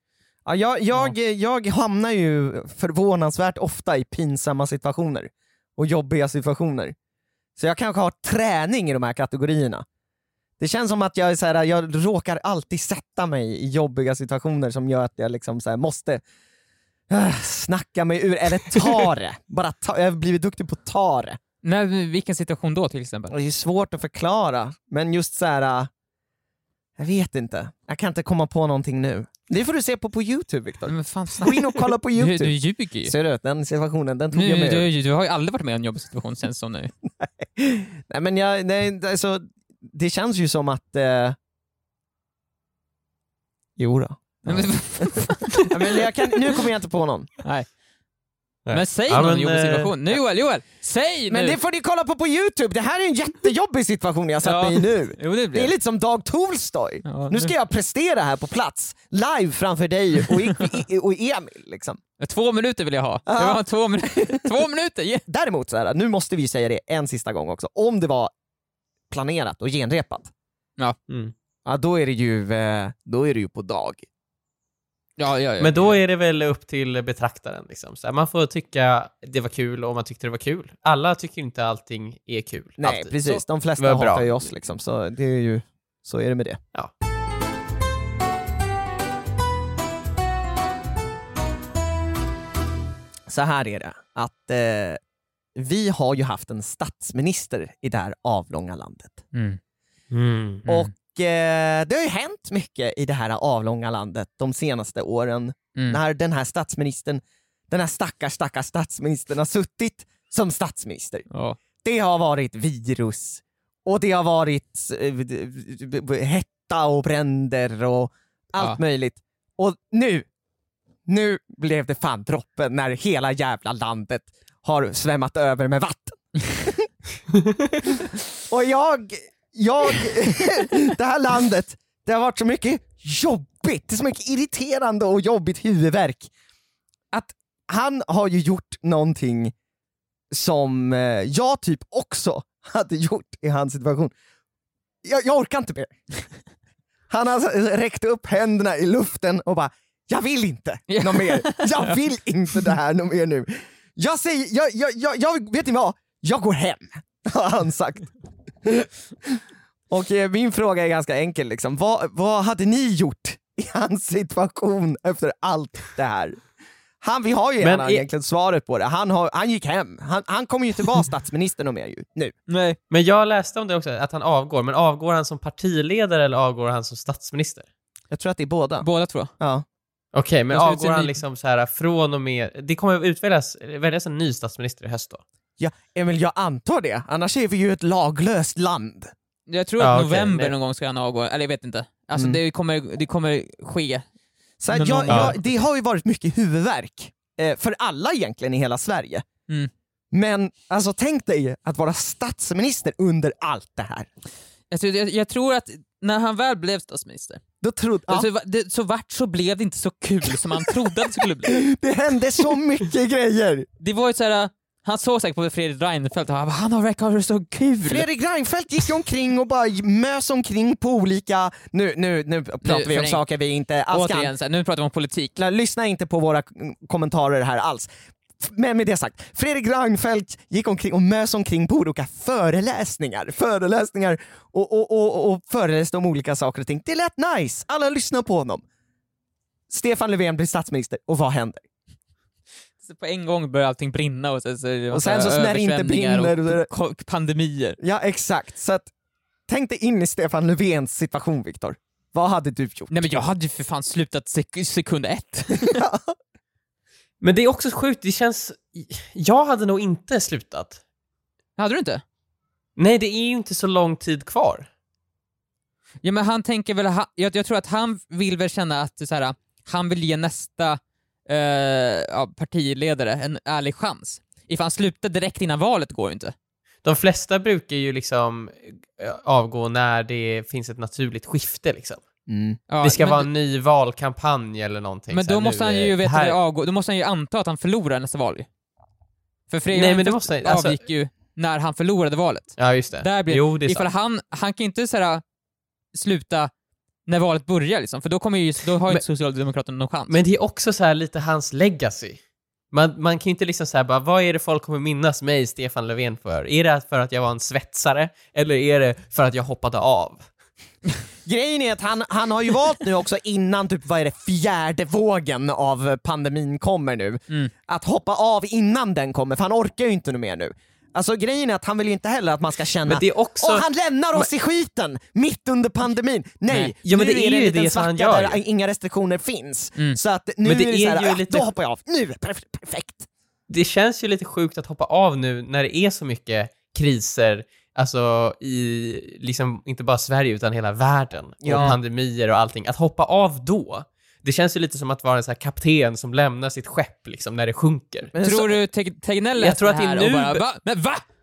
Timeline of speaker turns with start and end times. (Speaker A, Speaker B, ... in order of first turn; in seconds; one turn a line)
Speaker A: 0.5-7.0
Speaker A: 7.6-9.8
Speaker A: 10.6-16.2
Speaker A: 17.1-21.4
Speaker B: 21.6-23.4
Speaker A: 23.3-25.9
Speaker A: 27.0-34.9
Speaker B: 30.9-33.1
Speaker B: 34.3-36.9
Speaker A: 37.2-41.4
Speaker A: 43.8-47.3
Speaker B: 44.5-45.7
Speaker B: 47.4-47.7
Speaker C: 48.7-50.0
Speaker B: 48.7-51.6
Speaker A: 51.3-62.0
Speaker B: 54.4-55.7
Speaker B: 57.1-57.5
Speaker B: 62.2-65.2
Speaker A: 63.3-63.6
Speaker A: 64.1-64.4
Speaker A: 65.3-68.3
Speaker A: 69.1-70.3
Speaker A: 71.7-74.0
Speaker B: 75.2-76.0
Speaker C: 75.6-83.2
Speaker A: 82.8-86.6
Speaker C: 83.8-84.3
Speaker A: 93.3-95.0
Speaker A: 95.5-99.2
Speaker B: 99.3-99.6
Speaker C: 100.1-100.7
Speaker B: 100.7-100.9
Speaker A: 100.7-111.3
Speaker B: 111.3-111.6
Speaker A: 111.8-120.3
Speaker A: 121.1-126.9
Speaker A: 128.5-136.3
Speaker A: 137.1-139.5
Speaker A: 140.3-144.1
Speaker A: 145.0-146.1
Speaker A: 147.1-158.1
Speaker B: 150.9-152.0
Speaker A: 158.6-166.4
Speaker A: 167.0-172.3
Speaker C: 167.6-168.1
Speaker B: 172.5-172.8
Speaker C: 172.9-177.7
Speaker A: 178.1-178.9
Speaker B: 178.8-179.3
Speaker A: 179.4-179.7
Speaker C: 180.1-185.2
Speaker B: 180.5-181.1
Speaker A: 185.6-189.1
Speaker B: 189.5-194.1
Speaker C: 189.8-190.5
Speaker A: 194.6-199.2
Speaker B: 194.7-195.4
Speaker C: 195.1-195.3
Speaker A: 200.1-204.1
Speaker B: 204.7-207.4
Speaker A: 207.6-208.3
Speaker B: 208.1-211.6
Speaker A: 211.4-213.7
Speaker B: 213.8-218.1
Speaker A: 217.9-224.3
Speaker B: 222.6-223.2
Speaker B: 223.9-225.4
Speaker A: 225.4-227.9
Speaker A: 228.4-238.6
Speaker A: 239.7-241.6
Speaker B: 242.8-247.8
Speaker A: 244.9-246.7
Speaker A: 247.8-248.9
Speaker A: 249.5-253.1
Speaker B: 252.9-255.8
Speaker A: 255.6-256.1
Speaker C: 257.2-260.8
Speaker B: 261.6-262.0
Speaker C: 262.8-264.7
Speaker B: 266.0-276.3
Speaker C: 276.8-282.0
Speaker A: 282.3-282.6
Speaker B: 282.7-283.3
Speaker C: 282.8-286.4
Speaker B: 285.1-288.5
Speaker B: 289.5-295.2
Speaker C: 289.7-290.8
Speaker C: 292.6-293.9
Speaker B: 295.9-296.5
Speaker B: 297.1-300.1
Speaker C: 300.1-310.3
Speaker A: 311.3-333.1
Speaker C: 322.9-324.3
Speaker B: 326.5-326.7
Speaker C: 326.9-328.4
Speaker C: 330.4-331.5
Speaker C: 333.5-348.1
Speaker A: 341.4-341.8
Speaker A: 348.1-348.6
Speaker B: 348.2-351.1
Speaker C: 349.4-350.4